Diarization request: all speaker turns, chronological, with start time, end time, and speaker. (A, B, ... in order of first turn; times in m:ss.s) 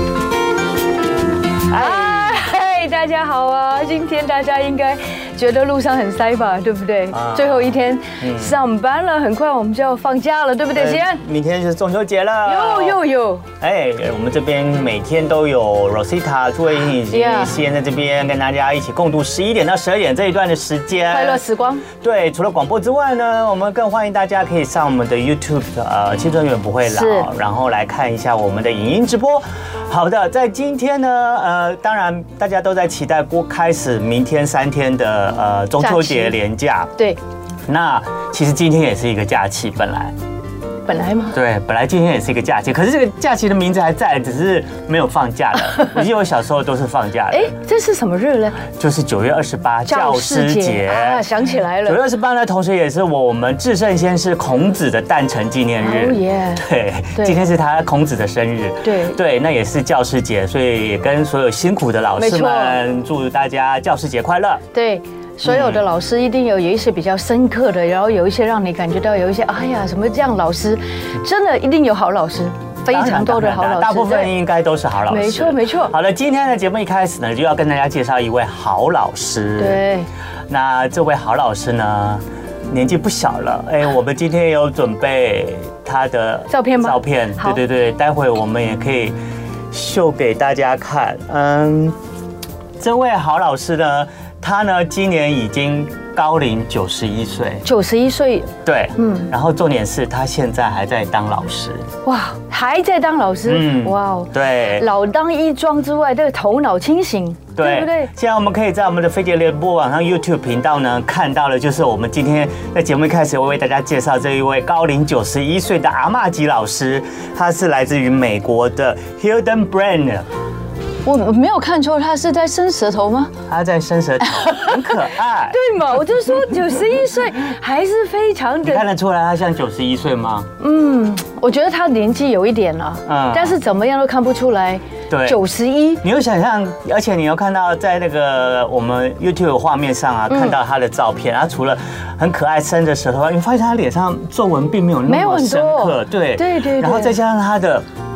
0:01.7-0:02.4 A
0:01.7-0:11.2 B
0:07.1-0:08.5 A
0:10.7-0:13.0 A
0:12.4-0:13.4 B
0:13.6-0:21.4 A
0:17.1-0:17.5 B
0:21.1-0:21.8 B
0:22.0-0:36.9 A
0:26.8-0:27.3 B
0:35.8-0:36.4 B
0:37.7-0:40.1 A
0:40.8-0:41.4 B
0:41.3-0:47.5 A
0:47.3-0:48.6 B
0:48.7-0:51.2 A
0:49.8-0:52.0 B
0:51.8-1:04.6 A
0:55.8-0:56.6 B
0:58.8-0:59.2 B
1:02.2-1:02.8 B
1:04.7-1:14.3 B
1:05.4-1:05.8 A
1:12.9-1:19.8 A
1:15.1-1:15.9 B
1:19.6-1:20.1 B
1:20.5-1:29.2 A
1:26.5-1:27.6 B
1:29.7-1:32.0 A
1:32.8-1:37.6 A
1:37.6-1:39.3 B
1:38.6-1:41.8 A
1:42.0-1:48.1 B
1:43.5-1:44.8 A
1:47.6-2:00.2 A
2:01.0-2:03.3 B
2:03.5-2:05.6 A
2:04.2-2:05.0 B
2:05.5-2:08.8 B
2:08.6-2:10.5 A
2:10.6-2:16.0 B
2:13.1-2:13.6 A
2:15.1-2:15.4 A
2:16.0-2:27.8 A
2:20.3-2:20.6 B
2:25.0-2:27.2 B